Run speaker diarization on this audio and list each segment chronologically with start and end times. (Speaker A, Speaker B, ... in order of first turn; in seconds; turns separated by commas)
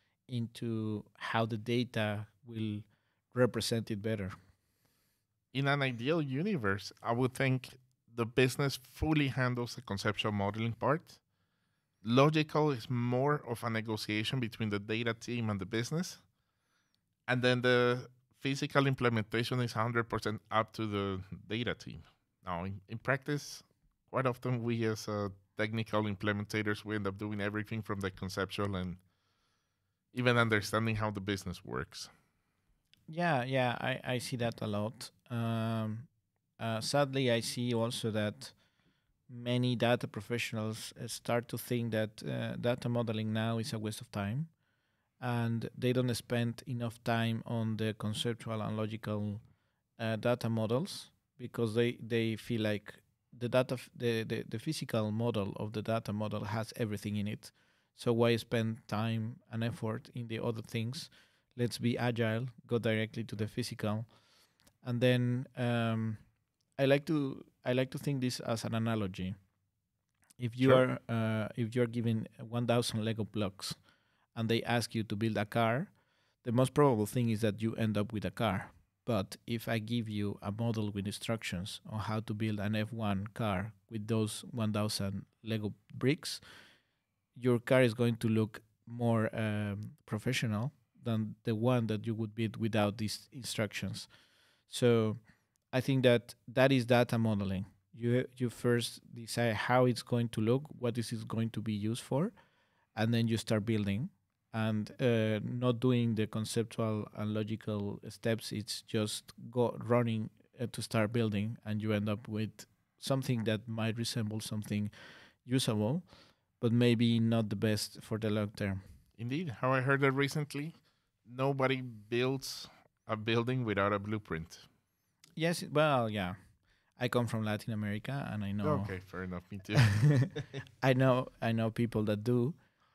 Speaker A: 0.3-4.3, Speaker B: 5.5-11.2, Speaker B: 12.0-16.2, Speaker B: 17.3-29.0, Speaker B: 30.1-32.1, Speaker A: 33.1-38.5, Speaker A: 39.3-44.5, Speaker A: 45.2-49.4, Speaker A: 50.0-64.1, Speaker A: 64.8-66.2, Speaker A: 66.8-69.4, Speaker A: 70.4-73.8, Speaker A: 74.3-75.9, Speaker A: 76.4-86.4, Speaker A: 87.3-94.1, Speaker A: 94.7-102.3, Speaker A: 102.9-114.9, Speaker A: 115.4-116.0, Speaker A: 116.6-118.8, Speaker B: 119.2-124.7, Speaker A: 125.3-126.4, Speaker A: 127.0-129.0, Speaker B: 128.6-130.4, Speaker A: 129.8-130.3, Speaker A: 130.8-132.6